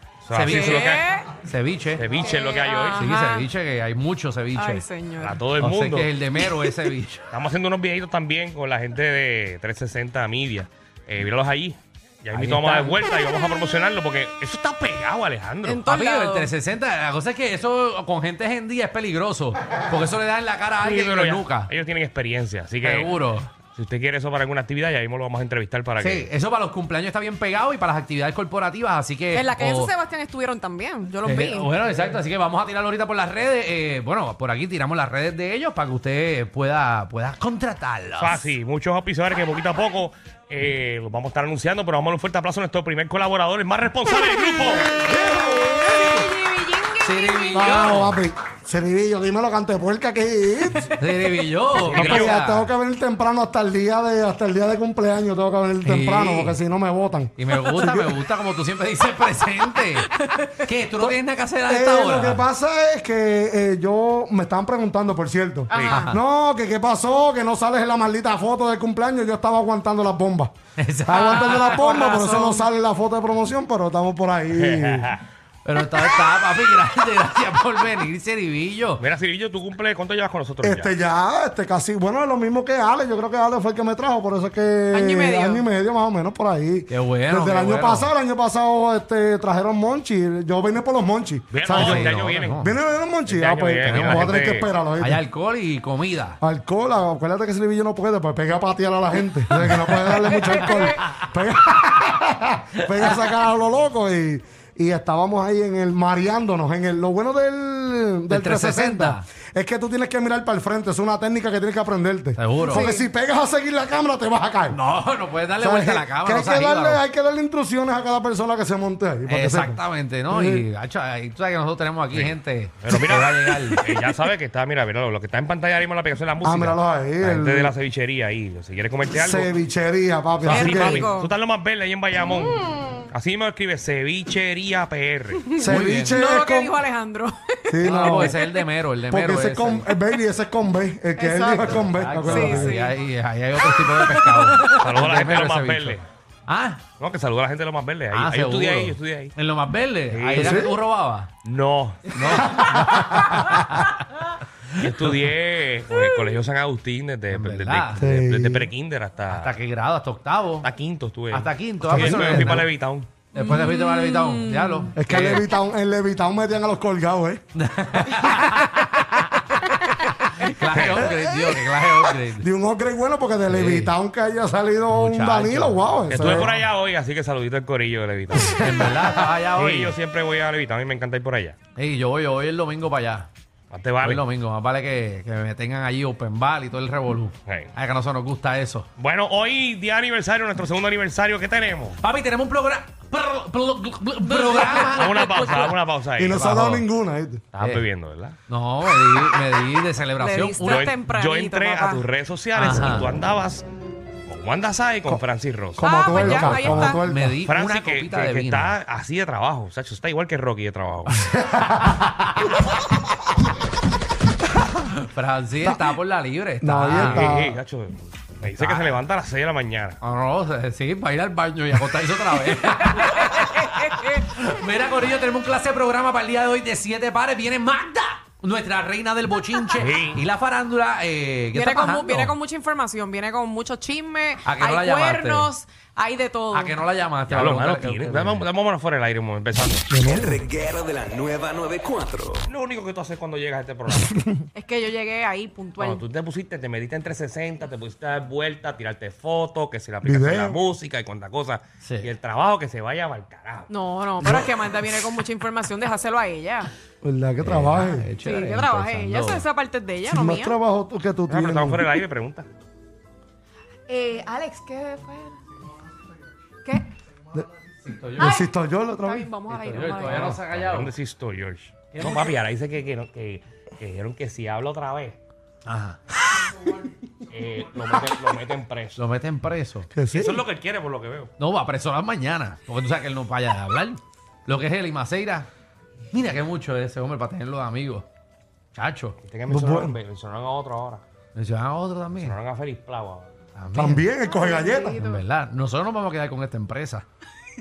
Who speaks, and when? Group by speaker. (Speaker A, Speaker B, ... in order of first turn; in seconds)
Speaker A: 0.2-1.1, 2.0-3.0, 5.2-6.1, 7.3-15.8, 20.8-23.2, 23.7-26.3, 38.2-44.9, 51.8-52.3, 65.7-66.0, 74.5-75.2, 79.0-80.9, 91.5-92.6, 93.3-94.7, 122.1-129.5, 130.4-135.5, 144.8-146.0, 147.0-149.3, 150.1-150.7, 151.4-152.1, 154.8-159.6, 160.6-163.1, 170.7-171.1, 176.1-178.8, 179.5-181.6, 183.7-184.3, 189.0-192.0, 194.9-196.4, 197.5-198.4, 200.7-203.7, 204.3-206.3, 207.5-211.3, 217.0-220.0, 229.8-230.2, 237.3-239.9, 242.5-244.2, 245.8-253.7, 261.3-262.5, 269.6-275.2, 277.3-279.0, 280.1-281.3, 289.2-291.0, 292.2-293.3
Speaker B: 0.3-2.0, 3.0-4.8, 5.6-7.3, 12.3-13.0, 15.9-21.7, 22.8-23.5, 26.0-29.9, 31.2-38.5, 47.0-48.2, 51.0-52.7, 55.8-56.6, 57.4-62.5, 65.8-66.2, 70.8-71.9, 75.6-79.0, 86.9-88.1, 91.7-92.7, 93.9-96.4, 99.7-101.2, 103.0-103.2, 108.3-109.2, 112.4-112.9, 114.7-117.0, 119.3-123.8, 135.6-136.2, 137.8-139.9, 141.6-146.8, 148.1-151.3, 152.1-154.0, 157.3-158.0, 159.3-160.7, 161.3-162.7, 163.3-165.4, 167.6-169.3, 170.4-172.5, 173.5-173.9, 174.9-176.7, 178.4-179.9, 181.8-183.3, 184.0-188.9, 192.0-195.5, 196.3-196.9, 198.5-200.9, 202.6-203.1, 206.3-208.8, 214.8-217.3, 218.4-219.0, 220.0-232.4, 234.4-235.5, 236.5-238.4, 251.8-252.1, 257.4-259.4, 267.8-268.4, 269.7-270.9, 271.9-272.3, 275.7-276.0, 279.0-279.9, 281.4-285.5, 286.1-288.1, 288.7-289.2, 291.4-292.4, 293.6-294.1, 295.0-297.1
Speaker C: 0.4-1.3, 2.2-3.5, 4.5-5.4, 15.6-16.5, 29.3-31.8, 44.5-48.0, 60.0-60.6, 71.2-72.7, 84.9-85.7, 112.6-113.1, 123.7-124.1, 130.5-131.3, 132.2-133.1, 135.5-138.6, 141.2-141.7, 142.3-143.0, 143.8-144.8, 163.4-164.9, 194.2-195.8, 200.2-202.1, 205.8-207.0, 223.1-224.1, 231.5-236.8, 244.6-246.0, 253.7-256.7, 258.2-260.6, 263.9-265.4, 266.6-266.9, 268.2-268.5, 269.0-270.2, 294.2-295.2
Speaker D: 45.0-45.5, 47.5-50.9, 51.9-58.2, 61.7-70.5, 71.1-75.1, 80.6-95.2, 96.4-114.8, 115.6-120.7, 126.4-127.7, 129.1-131.1, 135.6-136.8, 137.7-138.4, 139.1-142.8, 150.3-150.7, 152.4-153.5, 158.0-158.7, 161.8-162.7, 164.9-167.4, 168.0-169.5, 170.8-176.5, 196.2-197.4, 205.8-207.4, 211.2-212.0, 216.6-217.6, 239.9-240.4, 243.9-244.4, 250.0-250.6, 254.2-254.5, 257.0-258.1, 260.1-261.9, 268.2-269.3, 279.9-280.4, 289.5-290.0, 293.8-295.0
Speaker E: 240.1-242.4